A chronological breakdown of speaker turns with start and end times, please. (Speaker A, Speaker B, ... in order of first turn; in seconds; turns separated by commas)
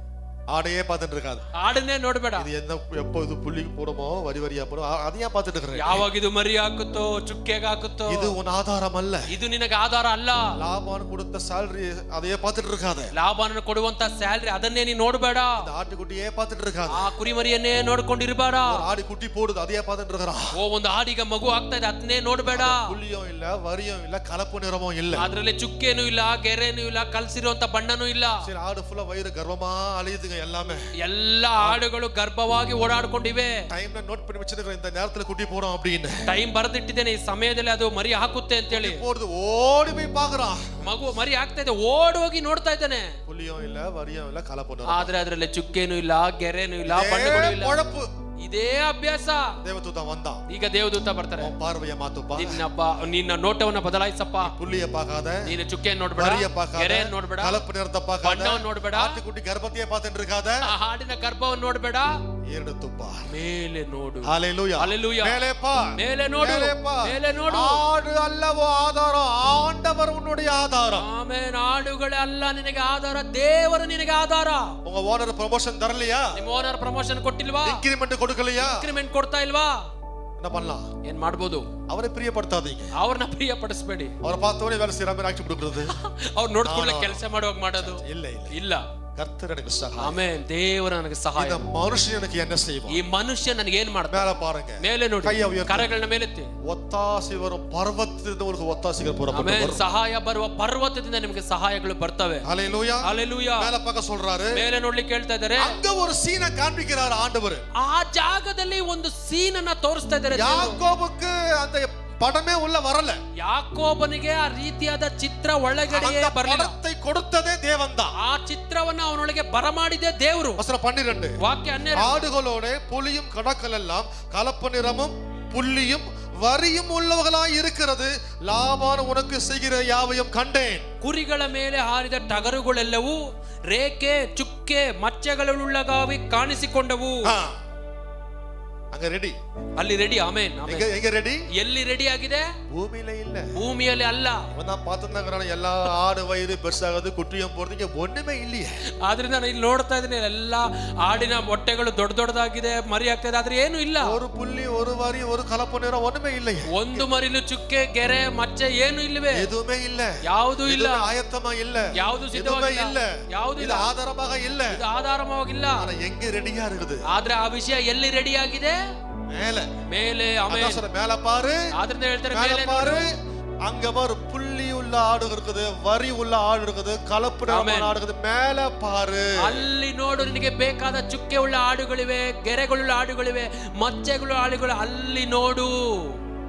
Speaker A: 0.5-1.4, Speaker B: 1.5-2.5, Speaker A: 2.4-6.0, Speaker B: 5.7-8.3, Speaker A: 8.1-9.3, Speaker B: 9.3-10.5, Speaker A: 10.5-13.1, Speaker B: 13.1-15.7, Speaker A: 15.6-17.1, Speaker B: 16.9-18.8, Speaker A: 18.7-20.5, Speaker B: 20.6-22.9, Speaker A: 22.5-25.2, Speaker B: 25.1-28.4, Speaker A: 28.4-30.8, Speaker B: 31.0-33.6, Speaker A: 33.7-36.2, Speaker B: 36.2-39.0, Speaker A: 38.7-40.8, Speaker B: 40.8-43.2, Speaker A: 43.3-45.1, Speaker B: 44.9-47.8, Speaker A: 46.9-48.1, Speaker B: 48.4-49.6, Speaker A: 49.6-50.4, Speaker B: 50.5-51.5, Speaker A: 51.4-52.6, Speaker B: 52.4-54.5, Speaker A: 54.4-55.5, Speaker B: 55.4-57.6, Speaker A: 56.1-60.7, Speaker B: 58.2-59.2, Speaker B: 60.6-62.1, Speaker A: 62.5-63.3, Speaker B: 63.3-65.4, Speaker A: 64.2-71.0, Speaker B: 66.0-67.8, Speaker B: 70.9-74.7, Speaker A: 74.8-76.4, Speaker B: 76.3-77.8, Speaker A: 77.6-78.9, Speaker B: 78.6-79.9, Speaker A: 80.4-80.9, Speaker B: 81.0-81.7, Speaker A: 81.9-82.9, Speaker B: 83.0-84.1, Speaker A: 84.2-85.9, Speaker B: 85.8-88.8, Speaker A: 86.6-87.2, Speaker A: 87.7-88.6, Speaker A: 89.2-90.2, Speaker B: 90.0-91.6, Speaker A: 91.3-93.0, Speaker B: 92.9-96.5, Speaker A: 94.1-95.9, Speaker A: 96.6-99.8, Speaker B: 99.3-102.4, Speaker A: 102.4-104.6, Speaker B: 103.0-103.7, Speaker B: 104.5-105.8, Speaker A: 105.6-107.6, Speaker B: 107.8-110.8, Speaker A: 110.3-113.2, Speaker B: 113.4-116.7, Speaker A: 115.9-118.1, Speaker B: 118.2-120.6, Speaker A: 120.6-121.4, Speaker B: 121.4-122.3, Speaker A: 121.9-130.8, Speaker B: 131.0-133.2, Speaker B: 133.7-137.3, Speaker A: 137.2-137.5, Speaker A: 138.9-139.3, Speaker B: 139.8-140.9, Speaker A: 140.6-141.4, Speaker B: 141.5-142.5, Speaker A: 142.7-143.6, Speaker B: 143.5-144.5, Speaker A: 144.5-148.7, Speaker B: 149.0-154.2, Speaker A: 154.0-157.1, Speaker B: 156.7-159.5, Speaker A: 159.3-164.8, Speaker B: 160.2-161.1, Speaker B: 161.9-163.9, Speaker B: 164.7-165.9, Speaker A: 165.8-167.0, Speaker B: 167.1-168.8, Speaker A: 169.3-169.7, Speaker B: 169.9-170.8, Speaker A: 170.5-171.7, Speaker B: 171.7-173.1, Speaker A: 172.3-173.1, Speaker A: 173.6-179.6, Speaker B: 177.5-178.0, Speaker B: 179.4-186.2